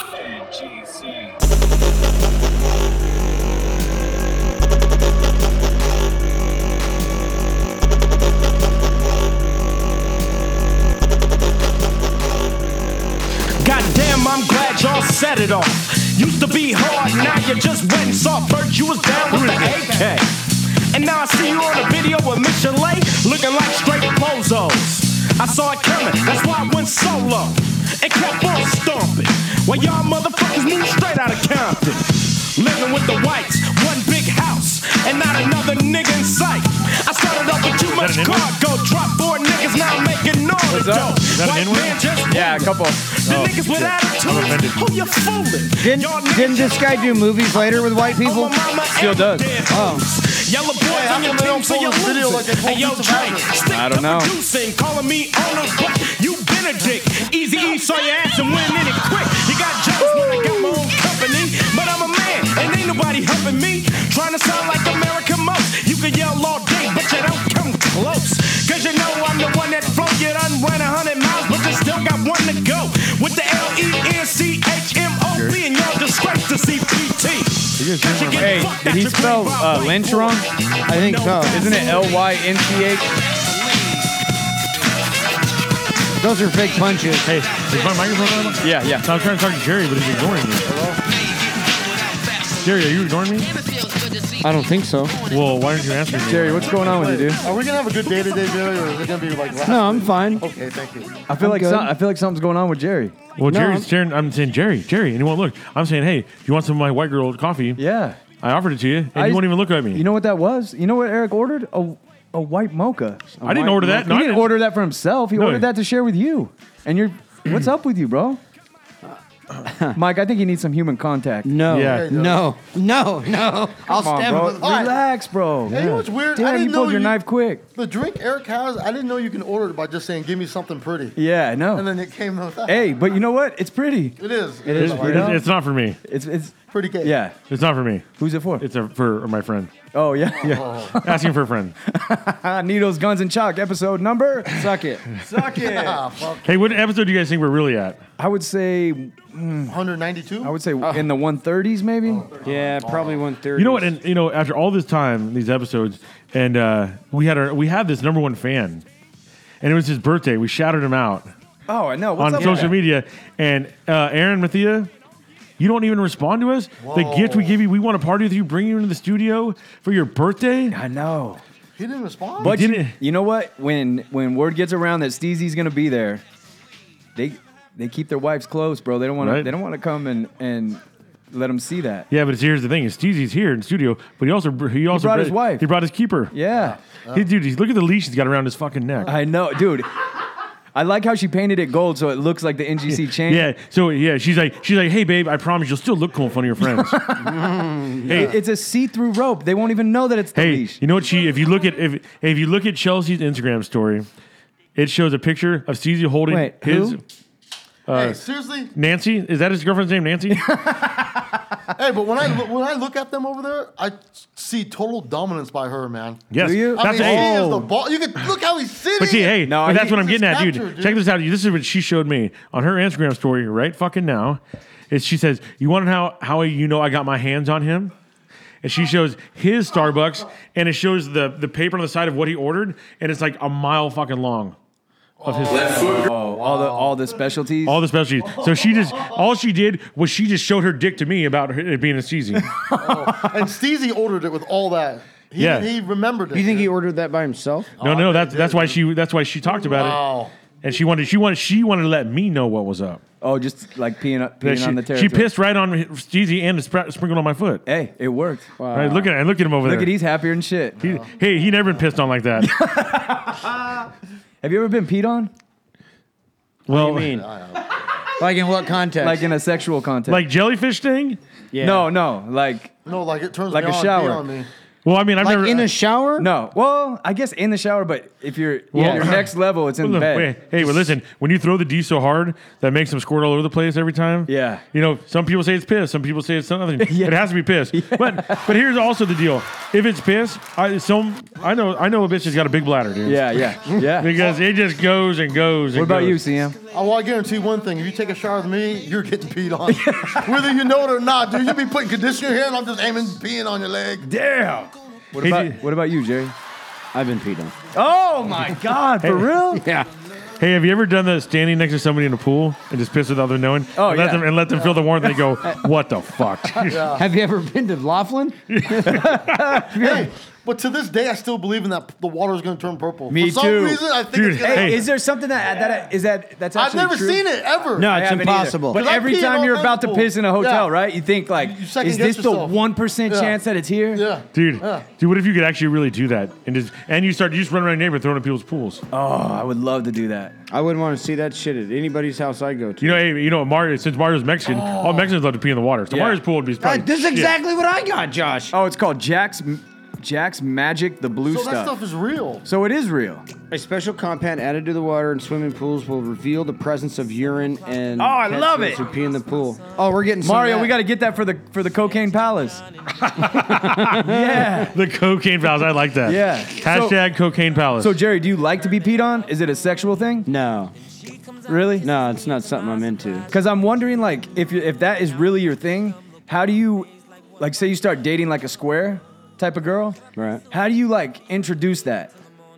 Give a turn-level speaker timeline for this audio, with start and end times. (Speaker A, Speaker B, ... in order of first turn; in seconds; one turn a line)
Speaker A: 13.6-82.2
Speaker B: 19.3-19.8
Speaker C: 37.8-38.5
Speaker B: 40.7-41.1
Speaker C: 41.2-42.0
Speaker B: 42.3-43.0
Speaker C: 43.2-44.9
Speaker D: 45.8-48.5
Speaker B: 48.9-49.5
Speaker D: 49.7-50.0
Speaker E: 50.9-53.5
Speaker B: 53.7-54.3
Speaker C: 77.8-78.7
Speaker B: 78.3-80.5
Speaker D: 80.9-81.8
Speaker B: 81.5-83.1
Speaker D: 86.2-87.3
Speaker C: 87.2-90.7
Speaker B: 88.6-89.1
Speaker E: 90.7-91.0
Speaker C: 92.6-93.5
Speaker D: 94.4-95.2
Speaker C: 95.2-96.8
Speaker B: 96.2-97.4
Speaker E: 96.7-101.2
Speaker D: 99.6-100.4
Speaker B: 101.3-103.2
Speaker D: 101.4-101.9
Speaker C: 103.4-110.0
Speaker D: 103.5-103.9
Speaker B: 107.8-108.2
Speaker B: 109.1-118.4
Speaker C: 113.4-114.6
Speaker C: 115.3-115.7
Speaker D: 119.0-120.0
Speaker B: 119.9-121.5
Speaker D: 121.4-124.7
Speaker C: 121.7-122.1
Speaker E: 121.7-122.4
Speaker B: 123.9-127.6
Speaker E: 124.2-125.0
Speaker E: 125.7-127.2
Speaker E: 127.7-131.2
Speaker B: 131.1-131.8
Speaker E: 131.7-133.1
Speaker B: 132.7-135.4
Speaker E: 134.2-135.4
Speaker D: 134.7-135.2
Speaker C: 134.8-136.0
Speaker B: 136.0-137.3
Speaker E: 136.7-137.2
Speaker C: 137.5-139.7
Speaker B: 138.2-138.6
Speaker B: 139.9-141.3
Speaker E: 140.4-141.0
Speaker C: 141.0-141.7
Speaker B: 141.9-144.6
Speaker D: 144.5-145.0
Speaker B: 145.2-146.0
Speaker E: 145.3-146.8
Speaker C: 146.4-148.0
Speaker B: 148.2-149.8
Speaker E: 149.7-150.5
Speaker B: 150.4-152.2
Speaker D: 150.8-151.1
Speaker E: 152.0-153.2
Speaker D: 152.4-153.9
Speaker C: 153.5-158.8
Speaker C: 159.6-161.3
Speaker B: 161.7-162.8
Speaker C: 162.2-164.9
Speaker C: 165.6-170.8
Speaker E: 166.8-167.6
Speaker B: 170.7-171.4
Speaker E: 171.8-172.6
Speaker C: 172.4-172.9
Speaker B: 172.4-176.2
Speaker B: 177.2-182.1
Speaker C: 179.2-179.5
Speaker C: 182.1-186.3
Speaker B: 184.9-185.7
Speaker B: 186.3-186.8
Speaker E: 186.5-187.3
Speaker C: 187.1-189.1
Speaker B: 189.0-189.9
Speaker B: 190.7-193.5
Speaker C: 193.2-197.0
Speaker B: 196.6-197.5
Speaker D: 197.4-198.1
Speaker B: 198.1-200.8
Speaker C: 198.1-198.3
Speaker C: 200.3-204.1
Speaker C: 204.8-207.0
Speaker B: 206.3-207.0
Speaker C: 207.9-208.2
Speaker E: 207.9-208.7
Speaker C: 208.7-210.5
Speaker B: 210.3-211.1
Speaker E: 211.7-221.0
Speaker C: 216.3-217.6
Speaker B: 216.4-217.6
Speaker C: 219.0-227.9
Speaker B: 219.4-220.0
Speaker C: 228.6-234.6
Speaker E: 235.2-235.8
Speaker C: 235.2-236.0
Speaker B: 235.7-237.8
Speaker C: 237.6-242.7
Speaker E: 242.7-246.7
Speaker C: 245.4-245.7
Speaker D: 246.3-247.7
Speaker E: 247.8-248.8
Speaker C: 247.8-250.0
Speaker E: 249.5-250.3
Speaker C: 250.6-253.0
Speaker B: 253.2-255.3
Speaker C: 254.4-257.6
Speaker B: 257.6-258.5
Speaker D: 258.6-259.1
Speaker C: 258.7-259.9
Speaker B: 259.6-260.8
Speaker E: 260.8-261.1
Speaker C: 260.8-262.5
Speaker B: 262.4-263.8
Speaker B: 264.4-265.3
Speaker C: 266.7-267.2
Speaker D: 266.7-267.2
Speaker E: 267.0-267.7
Speaker D: 268.1-269.2
Speaker B: 269.0-270.2
Speaker C: 270.1-271.2
Speaker D: 271.5-271.9
Speaker B: 271.6-272.7
Speaker E: 272.9-274.5
Speaker B: 273.5-274.2
Speaker C: 274.8-275.7
Speaker D: 275.2-276.3
Speaker B: 276.2-280.7
Speaker C: 278.7-296.2
Speaker B: 284.3-284.6
Speaker B: 286.8-288.4
Speaker B: 293.0-294.2
Speaker B: 295.7-296.6
Speaker E: 296.7-304.1
Speaker B: 299.7-300.5
Speaker B: 304.0-306.3
Speaker C: 305.2-305.6
Speaker D: 306.9-307.6
Speaker B: 307.7-309.6
Speaker C: 309.0-309.3
Speaker D: 309.5-309.9
Speaker C: 310.4-317.0
Speaker B: 313.8-314.3
Speaker E: 316.6-317.0
Speaker D: 316.7-320.1
Speaker C: 318.5-319.6
Speaker B: 318.9-319.7
Speaker E: 319.8-324.9
Speaker B: 323.1-327.2
Speaker C: 324.1-324.8
Speaker E: 325.5-325.8
Speaker E: 326.5-327.9
Speaker D: 327.8-328.8
Speaker B: 327.9-334.0
Speaker E: 328.7-330.7
Speaker E: 331.3-333.4
Speaker E: 333.9-334.9
Speaker C: 334.3-338.8
Speaker B: 338.9-340.3
Speaker D: 340.5-343.0
Speaker C: 342.8-347.3
Speaker E: 344.4-345.1
Speaker B: 345.9-346.2
Speaker D: 346.6-348.5
Speaker B: 348.5-351.7
Speaker E: 351.2-352.4
Speaker B: 352.4-353.2
Speaker D: 353.5-360.8
Speaker B: 358.0-358.8
Speaker B: 360.2-362.6
Speaker C: 363.0-363.9
Speaker D: 363.2-364.6
Speaker B: 363.9-364.7
Speaker C: 364.7-368.0
Speaker B: 366.0-367.0
Speaker B: 367.8-370.3
Speaker D: 370.2-370.7
Speaker B: 371.5-371.9
Speaker D: 371.8-373.3
Speaker B: 373.3-380.0
Speaker D: 380.1-380.4
Speaker B: 380.5-382.1